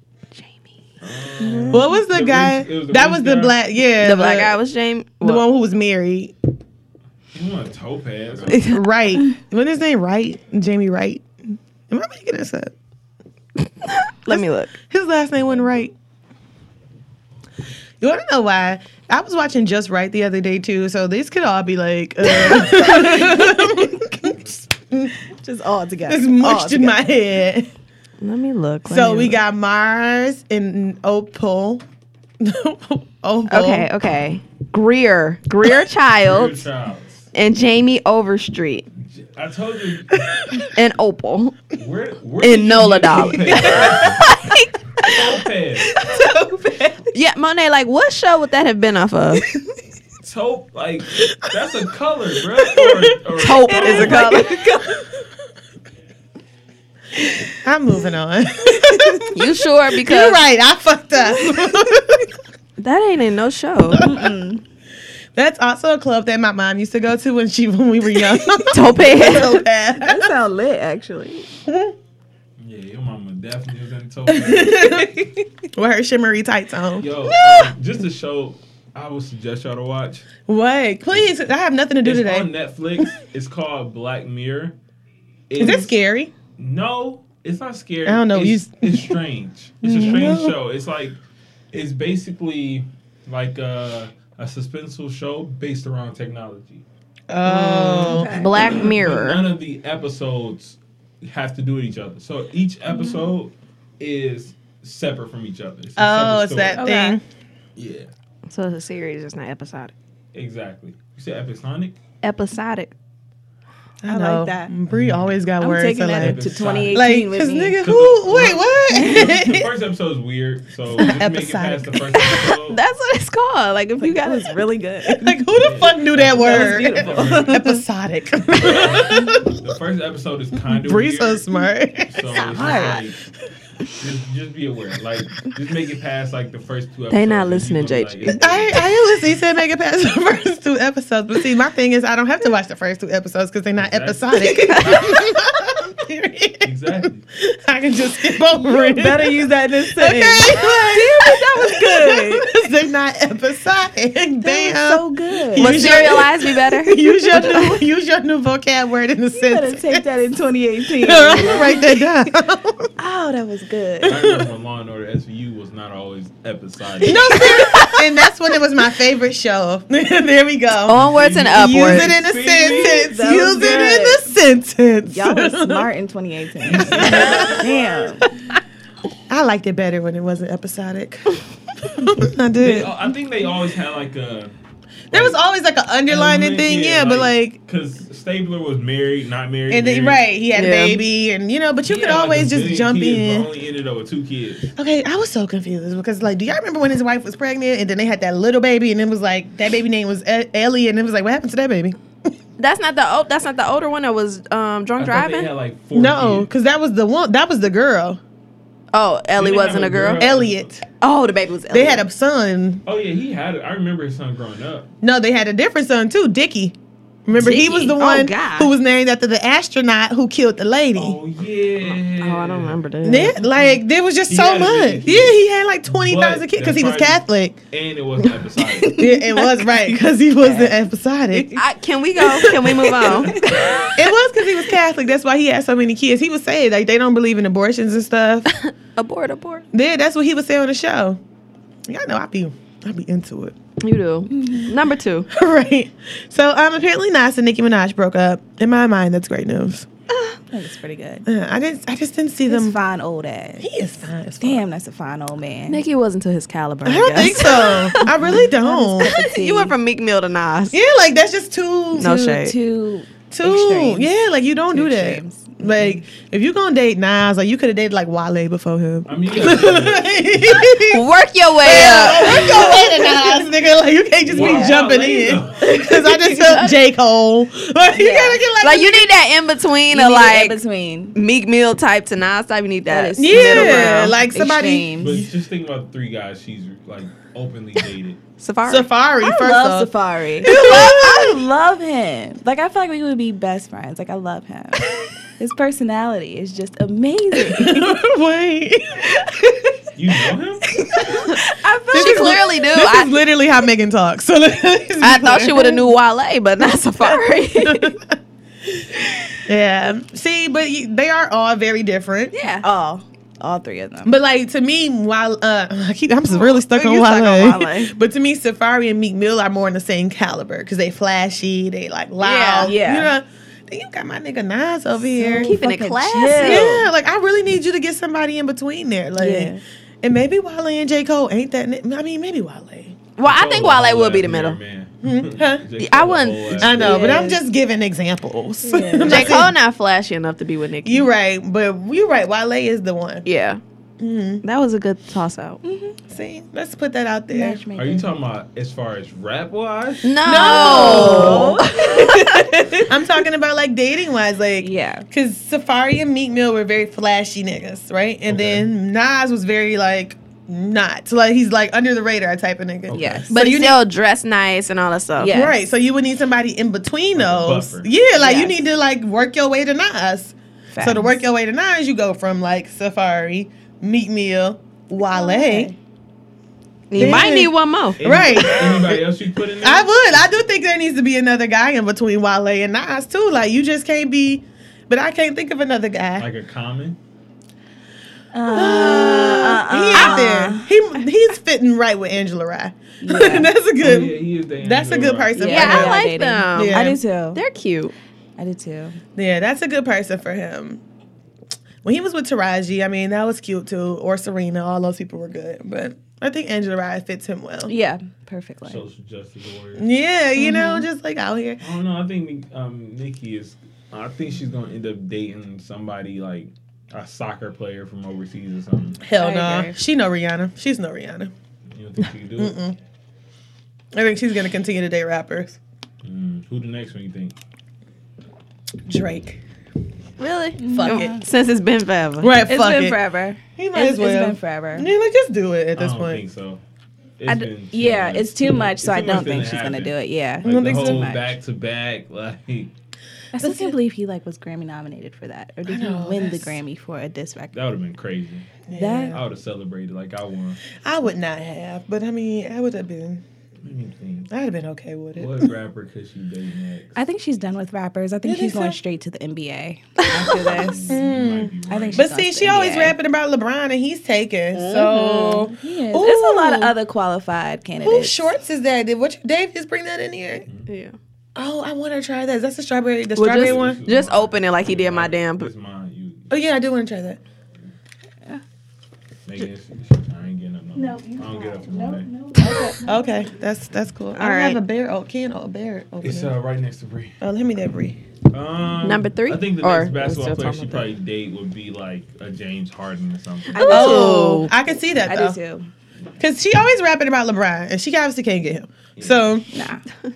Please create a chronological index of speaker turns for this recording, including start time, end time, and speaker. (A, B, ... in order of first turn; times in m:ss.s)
0:01.0-0:03.6 A
0:01.4-0:01.8 B
0:01.7-0:04.6 C
0:04.0-0:05.4 D
0:05.2-0:06.3 C
0:07.3-0:08.6 A
0:08.5-0:12.7 C
0:08.5-0:08.8 D
0:13.8-0:14.7 D
0:14.3-0:15.9 C
0:18.0-0:25.2 C
0:22.4-0:23.7 B
0:25.4-0:27.0 B
0:26.1-0:27.7 C
0:28.2-0:29.4 D
0:28.9-0:31.8 C
0:32.4-0:33.9 C
0:33.5-0:36.6 D
0:36.2-0:37.2 A
0:37.3-0:38.9 D
0:39.0-0:40.3 A
0:40.3-0:40.6 C
0:40.7-0:41.6 D
0:41.7-0:44.2 A
0:42.4-0:45.3 D
0:43.5-0:44.0 B
0:45.0-0:46.0 A
0:46.0-0:47.1 B
0:47.1-0:49.5 D
0:50.2-0:54.3 A
0:52.8-0:53.2 C
0:53.4-0:54.7 D
0:53.7-0:55.0 B
0:57.5-1:02.3 C
0:59.3-1:00.4 D
1:02.8-1:04.0 D
1:03.9-1:04.6 B
1:05.4-1:10.3 C
1:08.7-1:09.6 D
1:10.0-1:11.5 B
1:11.7-1:11.9 C
1:12.6-1:15.1 A
1:14.3-1:17.7 C
1:17.0-1:20.3 A
1:20.5-1:22.5 C
1:22.0-1:24.7 A
1:25.5-1:25.9 A
1:25.6-1:26.3 C
1:26.6-1:31.2 A
1:28.0-1:29.2 C
1:29.8-1:30.6 C
1:31.7-1:36.8 A
1:37.3-1:38.3 C
1:37.4-1:38.8 B
1:37.9-1:39.4 D
1:38.5-1:46.8 A
1:46.0-1:47.2 C
1:46.7-1:47.2 B
1:47.8-1:48.1 A
1:48.5-1:49.9 D
1:50.3-1:52.0 A
1:52.2-1:52.9 D
1:54.0-1:59.6 C
1:54.1-1:54.7 B
1:54.9-1:55.4 A
1:55.6-1:57.8 B
1:56.2-1:57.1 A
1:57.8-2:02.8 A
1:58.9-1:59.6 B
2:01.0-2:02.4 C
2:02.4-2:04.7 D
2:04.0-2:05.4 B
2:05.1-2:09.6 C
2:05.6-2:07.7 A
2:06.4-2:07.6 B
2:06.6-2:07.4 D
2:08.6-2:11.4 A
2:10.7-2:12.9 C
2:12.1-2:13.2 A
2:12.4-2:13.0 B
2:13.9-2:18.8 A
2:17.1-2:18.6 D
2:18.4-2:26.7 C
2:23.8-2:25.3 A
2:24.4-2:25.0 D
2:26.6-2:27.2 A
2:27.4-2:40.1 C
2:28.5-2:32.6 B
2:34.4-2:36.1 B
2:35.6-2:37.8 D
2:37.3-2:37.7 B
2:39.3-2:42.0 B
2:41.0-2:42.9 C
2:43.0-2:44.2 B
2:44.0-2:44.4 C
2:44.0-2:47.4 A
2:47.0-2:55.9 C
2:47.3-2:47.9 B
2:47.4-2:47.9 D
2:50.9-2:52.2 D
2:50.9-2:53.1 A
2:52.6-2:54.3 B
2:55.1-2:58.2 B
2:56.6-2:58.1 A
2:56.7-2:57.7 C
2:59.3-3:02.9 C
3:02.6-3:04.5 A
3:05.1-3:05.4 A
3:05.1-3:07.6 C
3:06.1-3:10.2 A
3:09.7-3:13.5 C
3:10.5-3:11.0 D
3:11.8-3:14.7 A
3:14.8-3:22.0 C
3:22.6-3:25.5 D
3:25.0-3:26.5 A
3:25.9-3:28.2 C
3:28.9-3:30.3 D
3:29.4-3:30.7 A
3:30.2-3:30.8 C
3:31.0-3:32.0 D
3:31.7-3:32.8 C
3:32.8-3:34.9 A
3:35.0-3:36.7 C
3:37.2-3:41.2 C
3:37.4-3:38.7 D
3:40.9-3:42.8 A
3:41.8-3:43.8 D
3:43.0-3:47.6 C
3:44.3-3:49.1 A
3:48.8-3:50.8 B
3:49.0-3:51.6 C
3:51.3-3:51.6 B
3:51.5-3:53.8 D
3:52.2-3:53.9 B
3:52.4-3:53.0 C
3:53.0-3:53.9 A
3:54.0-3:58.5 C
3:58.5-3:59.6 D
3:59.7-4:01.2 C
4:01.9-4:03.5 C
4:03.8-4:05.3 D
4:04.3-4:04.7 B
4:05.3-4:09.9 C
4:10.3-4:11.2 B
4:11.2-4:12.8 C
4:12.5-4:13.7 B
4:13.6-4:14.6 C
4:14.4-4:15.8 B
4:15.7-4:18.1 D
4:16.8-4:19.2 C
4:17.4-4:19.7 B
4:19.0-4:20.8 D
4:20.7-4:22.1 C
4:22.0-4:24.1 B
4:22.0-4:22.6 D
4:23.3-4:31.0 C
4:24.7-4:26.0 B
4:29.0-4:30.6 A
4:30.7-4:32.8 D
4:31.6-4:39.1 C
4:32.2-4:33.4 B
4:34.2-4:35.8 A
4:34.3-4:34.8 B
4:35.8-4:36.6 B
4:37.9-4:38.4 B
4:38.6-4:40.6 D
4:39.9-4:41.2 B
4:41.1-4:44.2 D
4:42.9-4:45.2 B
4:43.2-4:45.2 C
4:45.0-4:48.2 A
4:48.4-4:48.9 D
4:48.6-4:51.3 C
4:49.2-4:58.0 B
4:50.4-4:51.2 D
4:57.4-4:59.3 C
5:00.0-5:00.8 A
5:00.8-5:02.3 B
5:00.9-5:05.8 C
5:01.9-5:03.1 D
5:05.0-5:08.0 D
5:07.0-5:08.1 C
5:09.4-5:12.3 C
5:12.3-5:12.6 D
5:12.6-5:14.1 B
5:14.0-5:25.5 C
5:16.3-5:17.9 D
5:22.2-5:22.8 D
5:22.6-5:23.1 B
5:25.2-5:26.9 B
5:25.4-5:26.7 D
5:26.4-5:33.0 C
5:29.2-5:29.6 B
5:33.2-5:34.6 D
5:33.2-5:37.2 A
5:35.0-5:35.6 C
5:35.8-5:36.7 D
5:36.6-5:39.5 C
5:36.8-5:37.4 B
5:38.6-5:39.4 B
5:39.0-5:41.1 D
5:39.1-5:39.4 A
5:40.8-5:43.2 C
5:43.2-5:43.6 D
5:44.0-5:44.4 C
5:44.4-5:45.6 D
5:45.6-5:46.0 B
5:46.1-5:47.6 C
5:47.3-5:48.1 B
5:47.7-5:50.2 A
5:50.0-5:51.6 D
5:50.2-6:03.8 C
5:50.3-5:52.6 B
5:51.0-5:51.5 A
5:54.6-5:55.0 B
5:58.3-5:58.7 A
6:02.9-6:03.3 A
6:02.9-6:03.4 B
6:03.3-6:05.4 D
6:05.2-6:05.6 B
6:05.2-6:15.7 C
6:07.1-6:07.9 A
6:08.2-6:08.6 B
6:10.7-6:11.2 B
6:15.0-6:15.8 B
6:16.9-6:18.0 D
6:16.9-6:19.0 C
6:18.0-6:20.2 A
6:19.6-6:26.3 C
6:26.2-6:27.0 A
6:28.3-6:30.7 B
6:28.5-6:37.0 C
6:29.9-6:30.2 D
6:33.0-6:33.5 B
6:33.8-6:35.5 A
6:35.4-6:37.4 B
6:35.4-6:37.9 D
6:38.4-6:39.0 B
6:39.2-6:40.8 C
6:41.8-6:47.7 C
6:47.7-6:48.8 B
6:48.6-6:49.8 A
6:49.8-6:51.6 C
6:50.4-6:50.8 B
6:51.6-6:59.0 A
6:59.0-7:01.3 C
6:59.2-6:59.7 B
7:01.7-7:02.6 A
7:02.4-7:02.8 C
7:03.9-7:05.6 C
7:06.0-7:07.4 A
7:08.9-7:09.4 C
7:10.2-7:12.3 D
7:10.6-7:11.2 B
7:10.6-7:11.2 C
7:12.2-7:13.0 C
7:12.4-7:14.9 B
7:13.6-7:16.2 C
7:15.8-7:16.6 A
7:17.2-7:22.7 A
7:17.3-7:21.3 B
7:20.4-7:21.1 C
7:23.3-7:27.6 B
7:23.4-7:23.8 C
7:25.6-7:26.6 C
7:27.5-7:28.5 A
7:28.7-7:29.2 C
7:28.7-7:29.2 B
7:29.1-7:30.6 A
7:30.8-7:33.2 C
7:33.6-7:34.3 A
7:34.3-7:35.5 C
7:35.2-7:37.0 A
7:37.0-7:41.0 B
7:38.2-7:38.8 C
7:40.2-7:42.6 A
7:40.8-7:46.7 C
7:41.7-7:43.0 B
7:44.5-7:45.4 D
7:45.5-7:48.3 B
7:47.8-7:50.4 C
7:50.7-7:51.0 D
7:51.4-7:53.8 C
7:53.2-7:55.5 D
7:53.4-7:56.3 A
7:56.3-7:57.2 C
7:59.2-8:02.1 A
8:00.7-8:03.3 B
8:02.8-8:06.4 C
8:04.1-8:04.6 D
8:06.0-8:07.2 A
8:07.2-8:08.0 C
8:08.3-8:13.8 A
8:08.8-8:10.9 D
8:13.5-8:14.5 B
8:13.5-8:14.5 D
8:13.7-8:15.4 C
8:15.0-8:15.7 B
8:16.2-8:19.4 C
8:19.0-8:19.3 A
8:19.5-8:19.8 B